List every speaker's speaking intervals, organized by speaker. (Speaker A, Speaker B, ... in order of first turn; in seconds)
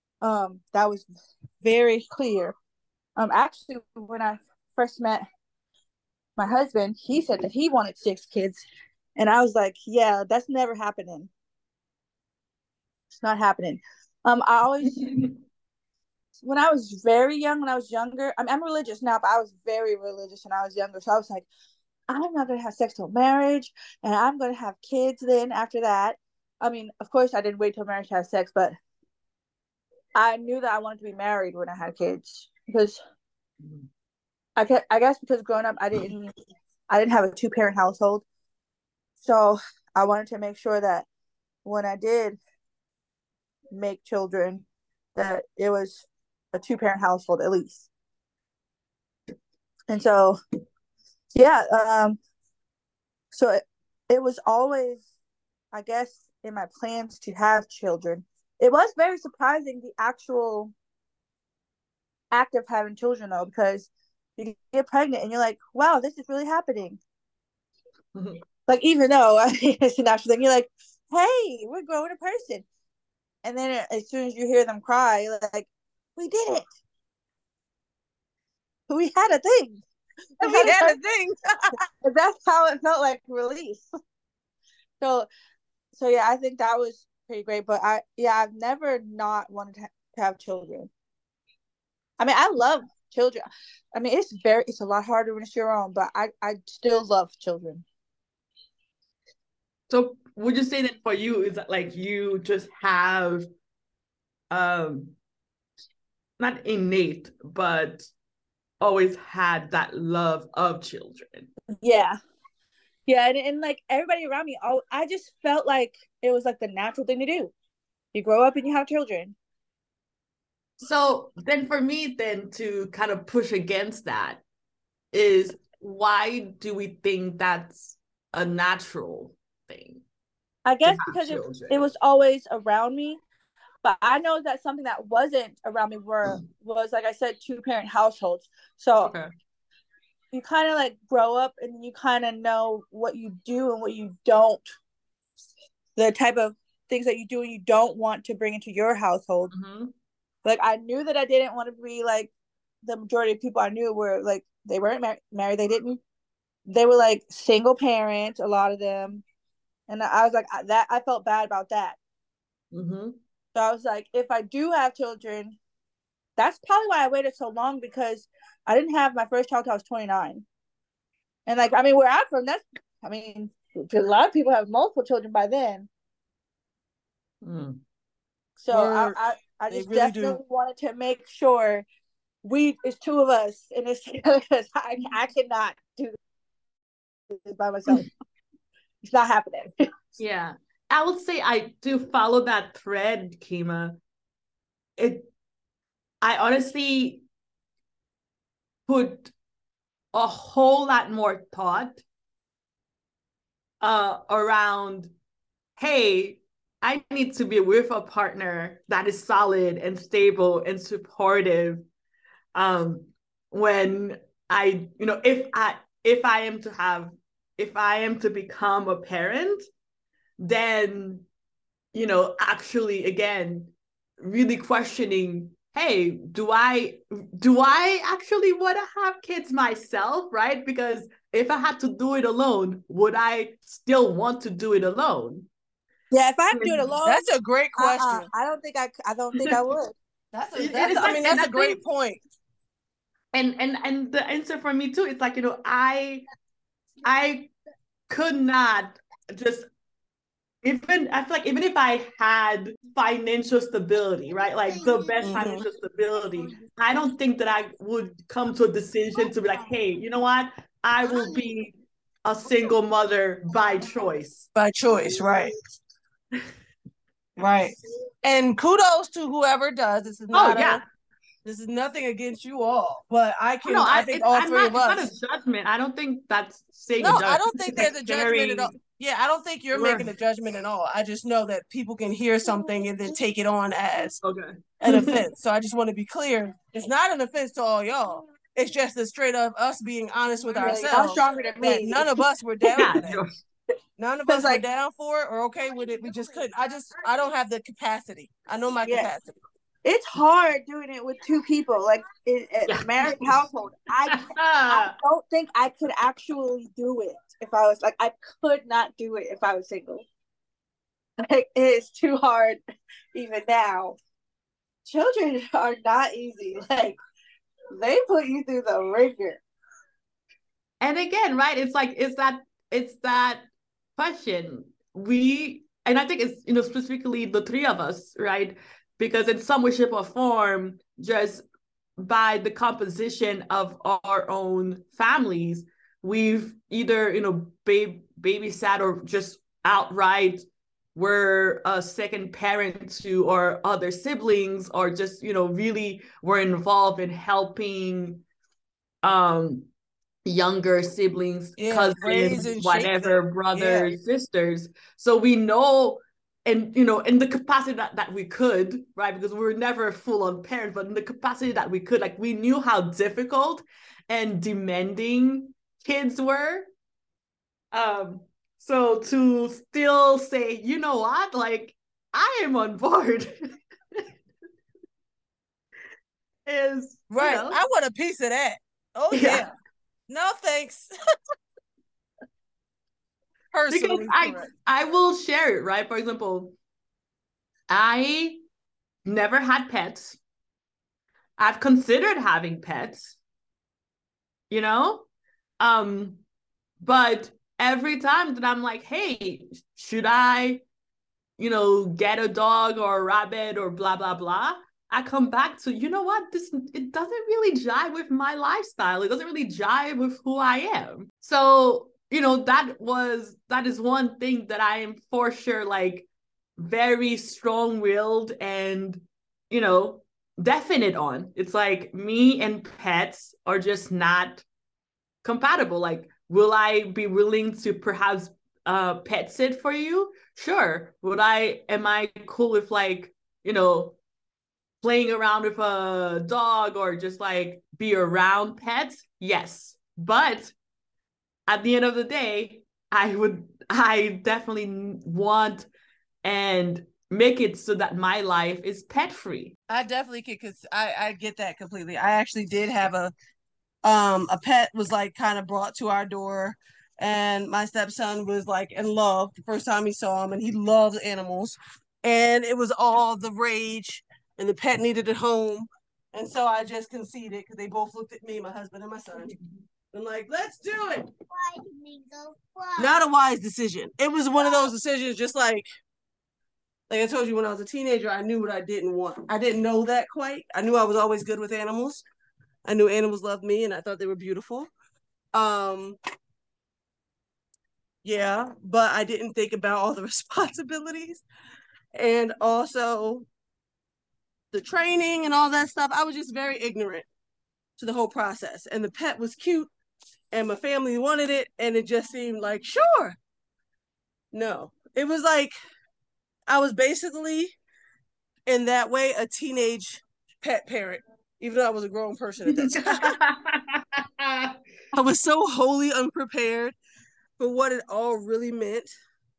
Speaker A: 0.2-1.1, 1.6-2.5, 3.2-5.2, 6.4-8.6, 9.2-11.3, 13.2-15.3, 16.4-21.5, 22.1-28.8, 30.2-33.0, 34.6-36.3, 36.9-38.2, 39.2-41.1, 41.6-42.4, 43.7-47.9, 49.9-50.4, 51.3-52.2, 53.3-55.1, 55.7-60.7, 62.3-67.0, 68.7-72.7, 73.4-76.7, 78.9-79.8, 80.4-81.0, 82.0-83.9, 85.0-85.3, 85.9-90.9, 92.2-97.8, 111.8-112.2, 113.1-117.5, 118.1-119.4, 130.7-133.2, 133.8-139.1, 140.3-144.7, 146.0-149.5, 150.4-152.3, 152.8-156.0, 156.7-159.2, 159.9-162.0, 163.6-165.6, 166.4-170.4, 171.5-175.9, 178.6-181.8, 182.4-186.2, 187.3-188.1, 189.1-189.7, 236.1-240.0, 290.6-292.1, 294.3-294.6, 298.8-299.1, 299.8-310.1, 311.2-312.6, 313.1-314.0, 314.9-317.0, 317.7-319.4
Speaker B: 33.6-33.9, 99.9-103.5, 104.5-105.2, 106.4-108.1, 108.8-111.5, 120.8-124.4, 125.1-130.0, 130.8-131.9, 139.0-139.3, 149.5-149.9, 162.7-163.2, 177.4-177.8, 190.2-194.0, 195.0-195.3, 196.2-197.2, 198.9-199.3, 200.1-202.0, 203.8-205.1, 205.8-211.8, 212.6-219.6, 220.4-221.3, 221.9-235.5, 236.5-236.9, 240.6-241.8, 243.3-246.2, 247.0-247.5, 248.1-249.7, 250.6-264.5, 270.3-270.8, 273.6-278.7, 279.7-280.1, 284.2-285.2, 290.5-291.1, 292.8-293.4, 302.7-303.4, 304.1-305.0, 320.8-323.5, 324.0-331.4, 332.0-348.2, 349.0-349.7, 350.2-366.7, 367.7-374.1, 376.5-377.6, 379.1-379.5, 383.7-386.6, 387.7-388.4, 389.1-390.2, 391.4-393.2, 394.5-395.1, 395.6-396.2, 396.8-400.6, 401.4-416.1, 416.6-424.4, 425.2-434.0, 434.8-440.6, 441.5-445.7, 446.2-449.5, 469.2-469.5, 512.5-514.5
Speaker C: 80.4-81.4, 178.7-179.2, 179.7-180.4, 237.1-238.3, 240.3-242.2, 255.2-255.7, 264.6-265.5, 267.4-270.8, 271.4-275.1, 277.0-284.2, 284.8-293.2, 294.0-299.3, 351.6-354.0, 377.1-379.5, 380.1-380.9, 383.5-384.5, 449.7-453.1, 453.9-469.3, 469.9-471.1, 472.8-475.7, 476.9-482.0, 482.7-484.7, 485.3-486.0, 488.0-491.2, 492.0-493.3, 494.5-497.1, 497.8-499.7, 500.3-503.2, 504.3-505.6, 506.5-507.6, 508.5-513.2, 514.9-516.8, 517.4-518.9